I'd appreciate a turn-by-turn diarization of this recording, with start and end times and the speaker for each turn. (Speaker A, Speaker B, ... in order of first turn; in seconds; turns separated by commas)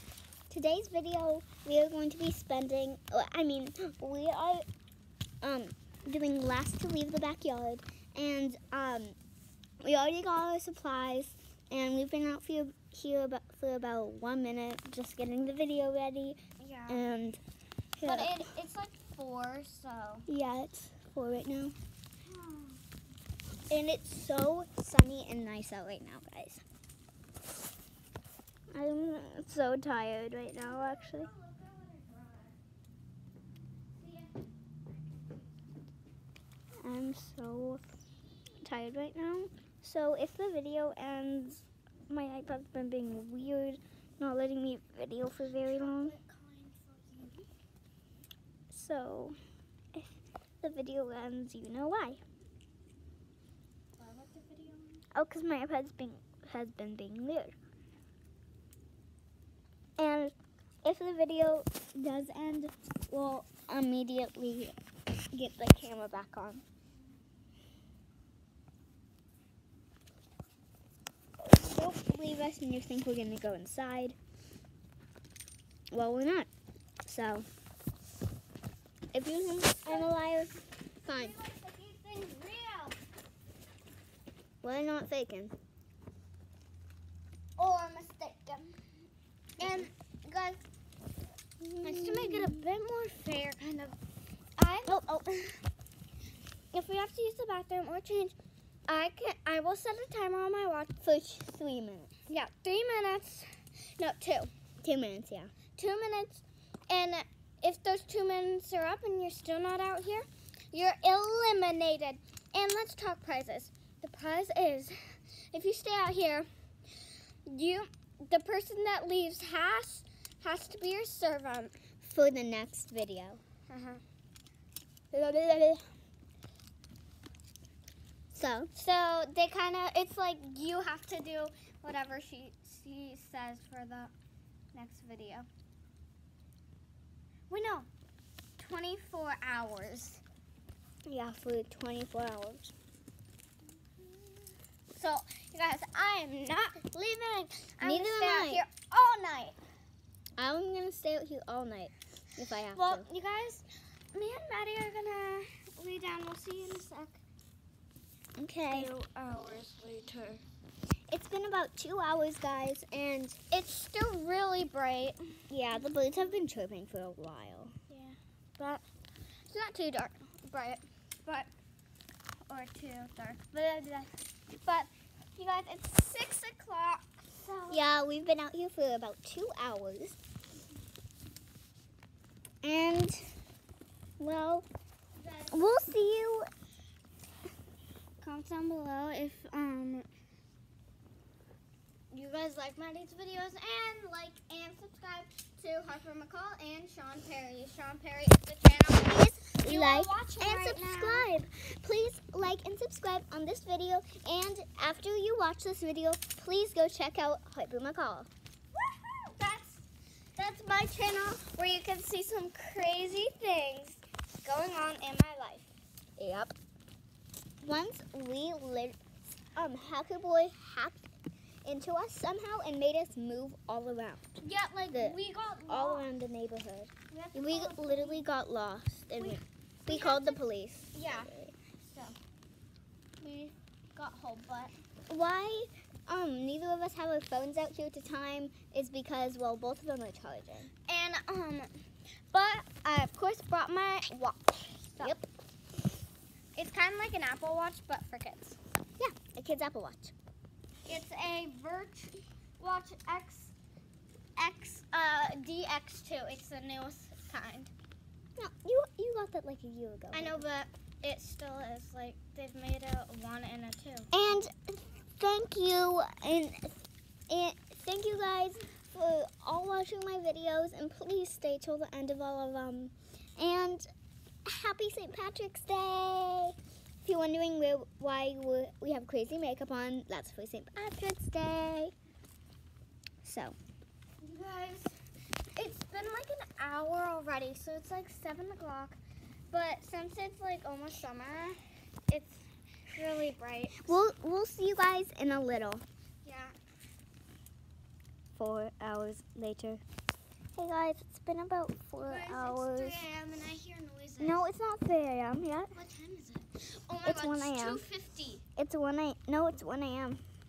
Speaker A: 0.5-4.7, Speaker A: 5.4-9.2, Speaker A: 9.8-17.4, Speaker B: 16.6-17.0, Speaker A: 18.0-18.4, Speaker B: 18.0-20.3, Speaker A: 20.3-21.8, Speaker B: 22.2-22.8, Speaker A: 23.7-26.6, Speaker A: 28.7-31.3, Speaker B: 30.6-32.6, Speaker B: 33.9-35.7, Speaker A: 36.8-37.8, Speaker A: 38.6-46.1, Speaker B: 45.6-47.5, Speaker A: 48.7-49.4, Speaker A: 50.6-52.2, Speaker B: 54.0-55.0, Speaker A: 55.1-57.5, Speaker A: 60.0-64.8, Speaker A: 65.3-66.6, Speaker A: 71.4-74.2, Speaker A: 75.9-76.5, Speaker A: 77.0-77.5, Speaker A: 79.1-81.3, Speaker B: 79.9-80.2, Speaker B: 81.0-83.0, Speaker A: 84.6-85.5, Speaker B: 87.6-88.8, Speaker B: 89.6-90.6, Speaker A: 89.6-89.9, Speaker A: 91.6-92.6, Speaker B: 91.8-94.0, Speaker B: 94.6-95.6, Speaker B: 96.7-98.4, Speaker B: 98.9-101.0, Speaker A: 101.0-102.1, Speaker B: 102.3-104.5, Speaker A: 104.8-105.5, Speaker B: 105.8-121.8, Speaker A: 122.0-123.4, Speaker B: 123.7-124.0, Speaker A: 125.1-125.8, Speaker A: 128.3-128.7, Speaker B: 128.8-134.1, Speaker B: 134.7-135.5, Speaker B: 137.5-137.9, Speaker B: 138.6-140.2, Speaker A: 141.1-142.7, Speaker B: 144.0-149.6, Speaker A: 147.8-148.6, Speaker A: 150.4-153.1, Speaker B: 152.7-157.2, Speaker A: 158.4-158.9, Speaker B: 158.7-160.4, Speaker A: 161.1-163.4, Speaker B: 163.5-165.5, Speaker A: 165.5-167.7, Speaker B: 167.9-168.8, Speaker B: 169.5-171.5, Speaker B: 172.5-177.8, Speaker A: 177.7-180.2, Speaker A: 182.6-183.3, Speaker A: 184.2-184.7, Speaker B: 185.2-185.8, Speaker A: 185.5-186.5, Speaker B: 188.2-190.1, Speaker B: 192.1-201.3, Speaker A: 199.0-208.3, Speaker B: 208.7-209.8, Speaker B: 210.4-215.7, Speaker A: 216.2-216.6, Speaker A: 217.6-219.0, Speaker A: 219.6-221.1, Speaker A: 221.7-224.4, Speaker B: 224.4-226.1, Speaker A: 224.9-231.5, Speaker B: 227.1-228.2, Speaker B: 229.2-230.4, Speaker B: 230.9-232.2, Speaker B: 233.2-234.7, Speaker A: 235.1-240.7, Speaker B: 240.9-245.2, Speaker B: 246.6-248.6, Speaker A: 249.0-250.1, Speaker B: 250.9-253.5, Speaker B: 254.4-257.7, Speaker A: 258.4-260.4, Speaker B: 260.1-264.2, Speaker A: 264.1-273.9, Speaker A: 274.4-281.9, Speaker A: 283.2-283.6, Speaker B: 284.2-284.9, Speaker B: 285.6-289.0, Speaker B: 289.5-294.0, Speaker A: 293.8-295.8, Speaker B: 296.2-296.6, Speaker A: 298.3-299.8, Speaker A: 300.6-303.0, Speaker B: 302.1-304.4, Speaker A: 304.2-305.7, Speaker B: 305.7-308.4, Speaker A: 307.0-307.8, Speaker A: 308.6-310.2